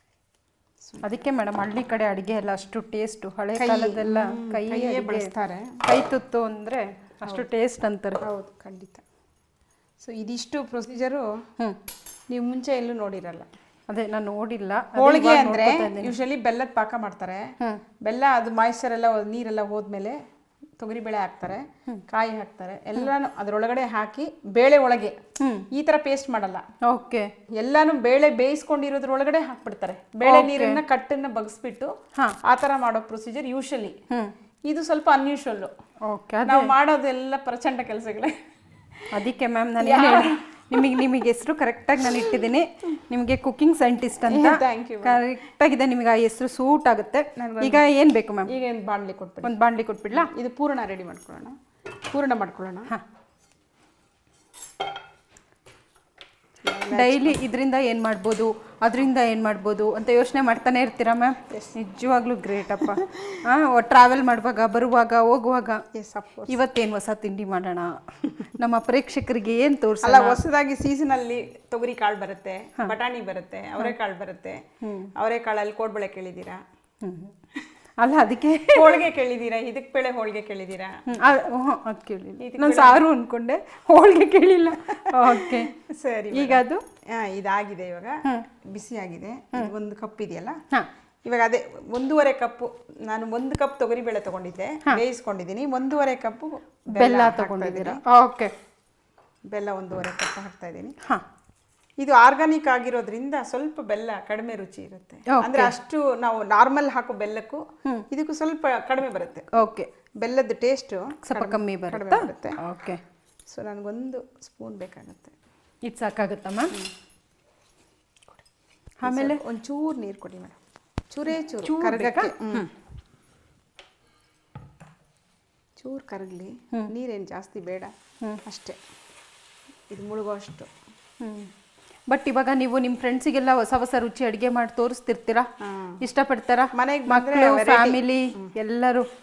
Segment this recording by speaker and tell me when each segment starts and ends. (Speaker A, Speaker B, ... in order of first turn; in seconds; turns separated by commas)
Speaker A: 0.8-1.2, Speaker B: 1.0-5.3, Speaker A: 3.6-5.8, Speaker B: 5.8-8.2, Speaker A: 8.2-9.0, Speaker A: 10.0-11.4, Speaker A: 12.3-13.5, Speaker B: 13.9-16.1, Speaker A: 14.9-20.2, Speaker A: 20.8-25.2, Speaker B: 25.4-25.7, Speaker A: 25.7-26.6, Speaker B: 26.8-27.3, Speaker A: 27.5-34.0, Speaker B: 30.2-30.8, Speaker A: 34.7-35.7, Speaker B: 36.1-36.7, Speaker A: 36.4-38.4, Speaker B: 39.1-48.5, Speaker A: 39.8-41.1, Speaker A: 44.2-45.3, Speaker A: 47.4-47.8, Speaker A: 48.5-49.6, Speaker B: 49.4-50.3, Speaker A: 50.1-51.6, Speaker A: 52.1-52.9, Speaker A: 56.6-57.4, Speaker B: 56.9-65.8, Speaker A: 62.8-63.4, Speaker A: 65.9-66.6, Speaker B: 66.5-70.4, Speaker A: 70.0-74.7, Speaker B: 74.8-75.1, Speaker A: 75.2-76.6, Speaker B: 77.0-77.3, Speaker B: 78.0-79.0, Speaker A: 78.7-81.2, Speaker B: 81.1-85.7, Speaker A: 82.4-83.1, Speaker A: 84.9-90.6, Speaker B: 86.3-86.8, Speaker A: 91.2-98.0, Speaker B: 96.9-98.5, Speaker A: 99.5-100.9, Speaker A: 102.0-109.5, Speaker B: 105.3-105.7, Speaker B: 109.5-109.9, Speaker A: 110.2-112.6, Speaker B: 111.2-113.0, Speaker A: 113.5-115.3, Speaker B: 115.8-116.8, Speaker B: 119.0-119.4, Speaker A: 119.0-122.7, Speaker B: 121.6-122.7, Speaker A: 125.8-127.9, Speaker A: 128.4-128.8, Speaker A: 129.9-130.7, Speaker B: 131.2-131.5, Speaker B: 132.1-135.5, Speaker A: 135.6-136.0, Speaker B: 136.0-139.1, Speaker A: 136.7-138.5